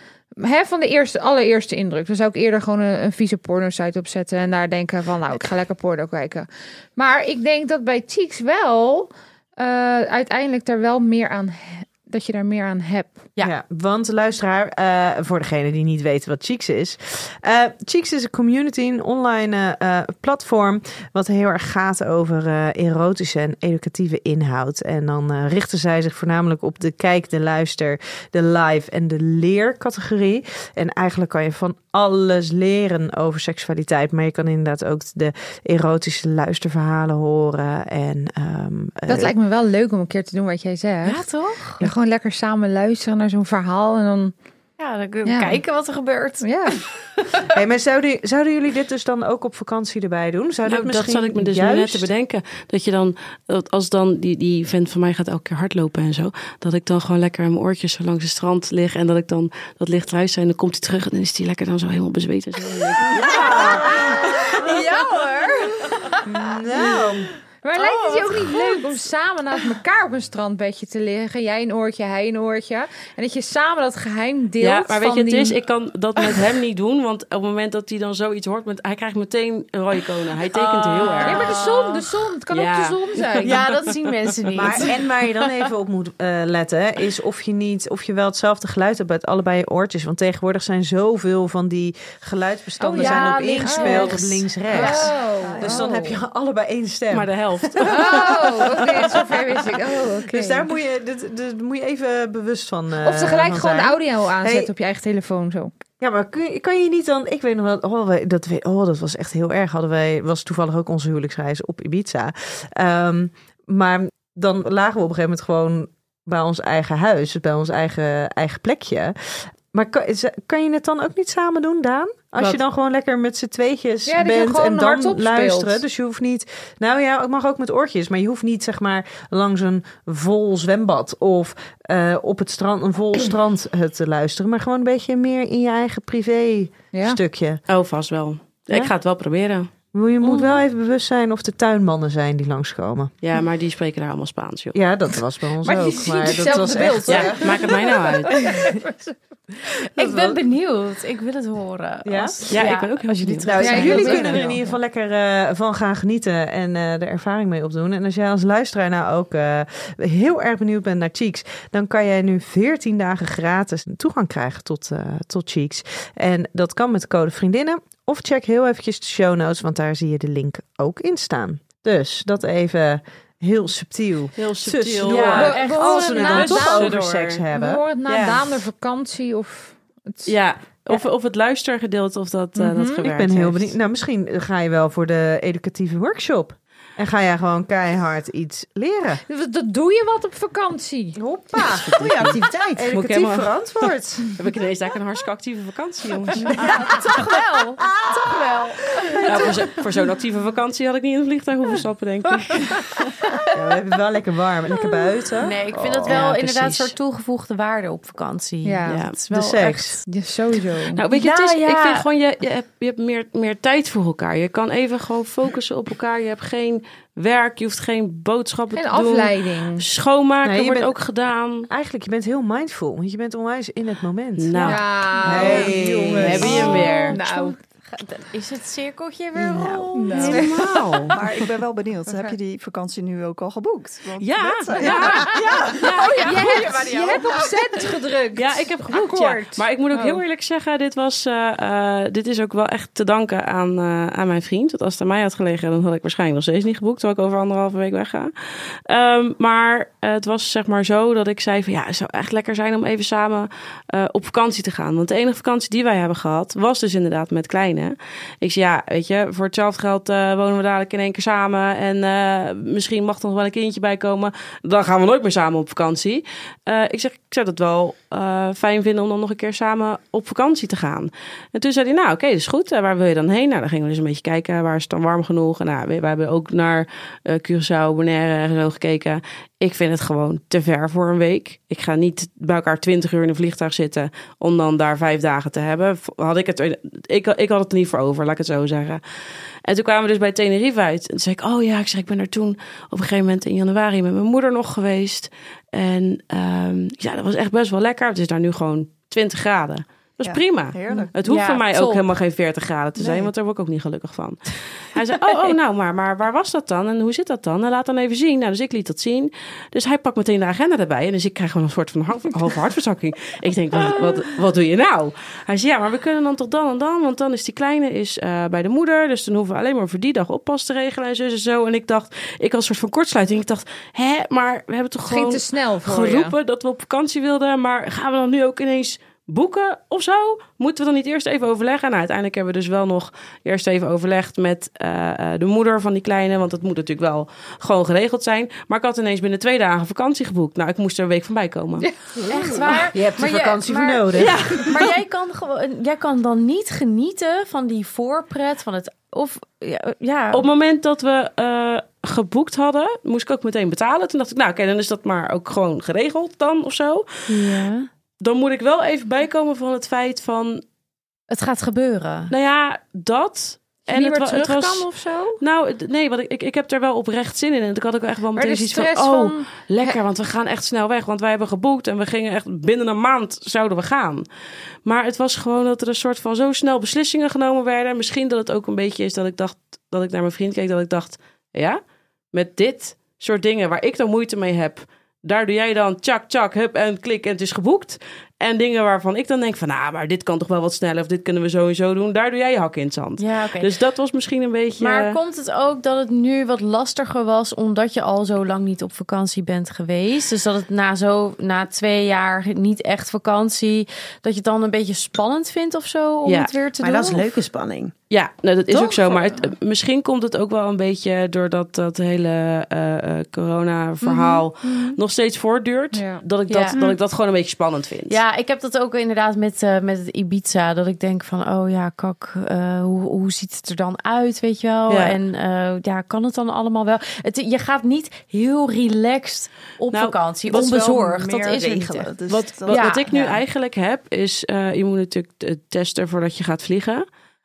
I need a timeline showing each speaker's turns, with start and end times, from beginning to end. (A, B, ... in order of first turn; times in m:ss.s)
0:00.4-0:13.3 A
0:13.4-0:39.3 B
0:39.1-0:41.3 A
0:41.0-0:41.8 C
0:41.8-0:44.4 A
0:44.8-0:47.4 C
0:45.2-0:45.6 A
0:46.4-0:46.8 A
0:47.5-0:52.1 B
0:50.7-1:03.4 D
1:03.1-1:06.2 C
1:03.1-1:04.3 B
1:06.2-1:07.3 B
1:07.6-1:15.6 A
1:07.8-1:09.0 C
1:14.6-1:21.7 D
1:20.6-1:21.9 C
1:21.0-1:23.7 A
1:22.5-1:23.8 D
1:23.4-1:24.9 C
1:24.6-1:39.4 B
1:32.8-1:36.2 A
1:33.0-1:35.2 C
1:35.4-1:35.9 E
1:37.1-1:38.6 D
1:37.8-1:40.7 A
1:40.3-1:44.7 B
1:43.0-1:45.8 A
1:46.0-2:17.6 B
2:04.1-2:05.8 A
2:16.9-2:17.2 A
2:17.7-2:19.7 D
2:19.9-2:23.1 B
2:23.2-2:24.8 D
2:24.7-2:27.9 B
2:25.6-2:29.0 A
2:27.1-2:28.4 D
2:30.0-2:34.8 C
2:30.0-2:30.4 B
2:32.0-2:32.7 B
2:32.5-2:34.4 D
2:33.5-2:57.8 B
2:33.6-2:34.5 A
2:54.4-2:55.6 D
2:55.1-2:56.5 C
2:55.3-2:57.0 A
2:56.2-2:57.4 D
2:57.5-3:00.3 A
2:58.1-2:58.5 D
3:00.3-3:03.7 D
3:02.6-3:03.0 A
3:03.0-3:09.2 B
3:09.3-3:11.2 A
3:11.2-3:11.9 B
3:11.6-3:13.5 D
3:11.9-3:12.8 F
3:12.8-3:14.2 B
3:14.3-3:16.6 D
3:16.5-3:19.4 C
3:16.6-3:17.2 B
3:17.8-3:18.4 B
3:19.0-3:19.7 B
3:19.2-3:22.8 D
3:22.6-3:23.4 C
3:23.5-3:26.2 B
3:25.4-3:30.0 C
3:26.1-3:27.0 D
3:28.6-3:29.0 A
3:28.9-3:29.2 D
3:29.3-3:30.0 B
3:30.1-3:31.0 A
3:30.9-3:41.7 D
3:31.1-3:32.0 C
3:38.8-3:39.8 A
3:40.4-3:41.0 B
3:41.7-3:46.9 B
3:44.4-3:47.2 D
3:44.6-3:47.6 A
3:46.4-3:50.6 C
3:49.9-3:50.7 A
3:50.2-3:51.2 D
3:51.1-3:55.9 E
3:54.2-3:57.1 D
3:54.9-3:57.5 C
3:56.0-4:00.2 A
3:58.4-4:49.0 D
4:49.6-5:41.9 D
5:00.2-5:01.1 E
5:00.9-5:02.0 C
5:03.0-5:03.3 E
5:25.1-5:26.4 A
5:41.8-5:42.6 A
5:42.3-5:50.5 C
5:42.7-5:44.4 B
5:44.2-5:44.9 D
5:50.3-5:57.6 D
5:57.3-5:57.9 C
5:58.2-6:00.6 D
6:01.3-6:02.3 C
6:02.3-6:04.9 D
6:03.9-6:05.4 A
6:05.4-6:14.3 D
6:08.4-6:10.0 A
6:14.8-6:21.8 D
6:22.3-6:35.2 D
6:33.2-6:33.8 C
6:34.8-6:47.2 C
6:46.3-6:46.5 D
6:46.8-6:47.9 F
6:48.1-6:58.2 D
6:48.7-6:49.5 A
6:54.1-6:54.4 C
6:54.1-6:55.0 A
6:55.9-6:57.0 A
6:56.5-6:56.8 C
6:58.1-7:12.1 C
7:04.9-7:05.2 D
7:09.9-7:10.6 D
7:10.5-7:13.3 E
7:12.3-7:17.1 D
7:12.7-7:13.1 C